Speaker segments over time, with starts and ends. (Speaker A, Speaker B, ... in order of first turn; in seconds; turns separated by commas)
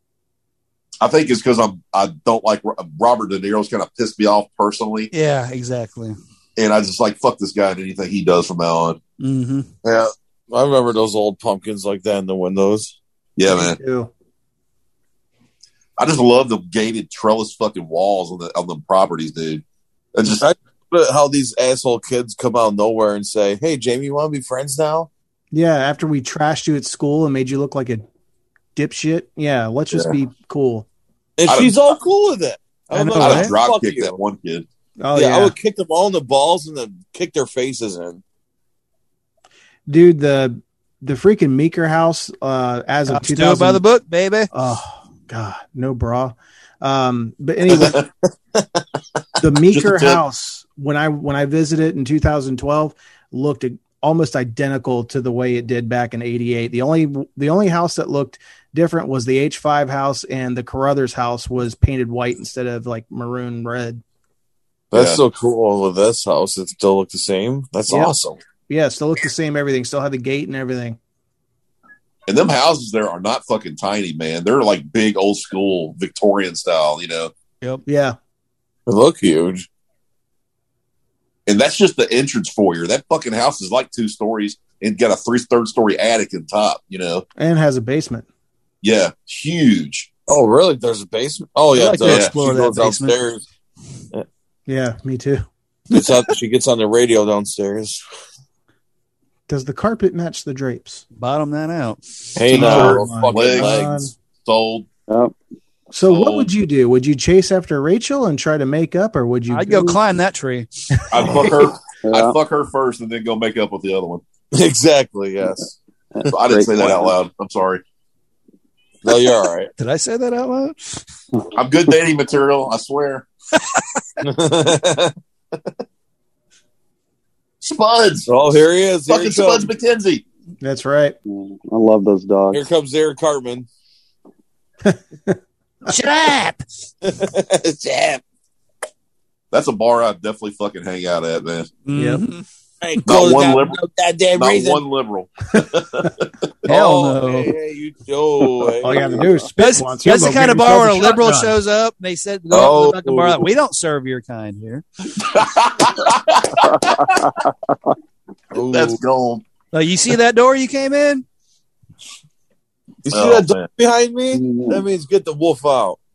Speaker A: 1.0-5.1, Speaker B: 5.1-6.2, Speaker A: 6.6-9.0, Speaker B: 9.2-9.7, Speaker C: 9.8-12.9, Speaker A: 13.3-13.8, Speaker D: 13.5-14.1, Speaker A: 16.0-19.6, Speaker A: 20.1-20.4, Speaker C: 20.2-25.1, Speaker D: 25.5-28.0, Speaker D: 28.8-30.9, Speaker C: 31.4-34.1, Speaker A: 31.4-31.8, Speaker D: 32.9-33.5, Speaker A: 33.1-34.6, Speaker D: 35.0-35.5, Speaker C: 35.1-38.2, Speaker D: 39.9-43.8, Speaker B: 43.1-44.5, Speaker D: 44.5-48.0, Speaker C: 47.7-48.0, Speaker D: 49.4-64.0, Speaker A: 49.7-50.2, Speaker A: 64.9-65.2, Speaker C: 64.9-68.4, Speaker D: 68.7-71.0, Speaker A: 72.3-77.3, Speaker D: 77.8-78.2, Speaker C: 78.9-79.7, Speaker A: 81.5-87.2, Speaker D: 87.4-88.2, Speaker A: 88.8-90.1, Speaker C: 90.3-93.4, Speaker B: 91.7-93.2, Speaker A: 92.0-92.3, Speaker D: 94.7-95.5, Speaker C: 95.9-98.0, Speaker D: 99.5-101.0, Speaker B: 101.2-103.0, Speaker C: 102.3-104.0, Speaker D: 102.5-104.1, Speaker A: 102.5-103.8, Speaker A: 104.4-104.9, Speaker E: 105.1-105.3, Speaker D: 105.9-110.0, Speaker A: 106.0-106.5, Speaker B: 109.5-111.2, Speaker D: 111.0-111.4, Speaker A: 111.1-114.2, Speaker E: 112.0-112.3, Speaker C: 114.5-115.8, Speaker E: 116.1-117.1, Speaker A: 116.3-117.8, Speaker C: 119.0-119.7, Speaker B: 119.8-121.0, Speaker A: 121.5-123.2, Speaker C: 124.2-125.1, Speaker A: 127.6-128.3, Speaker C: 128.2-129.7, Speaker A: 129.1-130.2, Speaker D: 130.6-131.2, Speaker E: 131.3-132.6, Speaker C: 132.5-133.7, Speaker D: 134.8-135.4, Speaker B: 135.8-136.6, Speaker C: 137.0-138.2, Speaker A: 139.5-141.7, Speaker B: 141.9-142.4, Speaker D: 141.9-142.2, Speaker C: 142.8-144.8, Speaker A: 143.0-143.8, Speaker A: 144.3-146.7, Speaker B: 146.7-147.5, Speaker C: 146.7-149.2, Speaker D: 148.8-151.5, Speaker E: 149.0-149.2, Speaker B: 149.6-154.8, Speaker C: 152.5-153.5, Speaker A: 155.2-157.3, Speaker C: 158.5-159.0, Speaker A: 158.5-159.4, Speaker B: 159.7-161.2, Speaker C: 163.0-166.0, Speaker A: 163.1-163.7, Speaker E: 164.3-164.8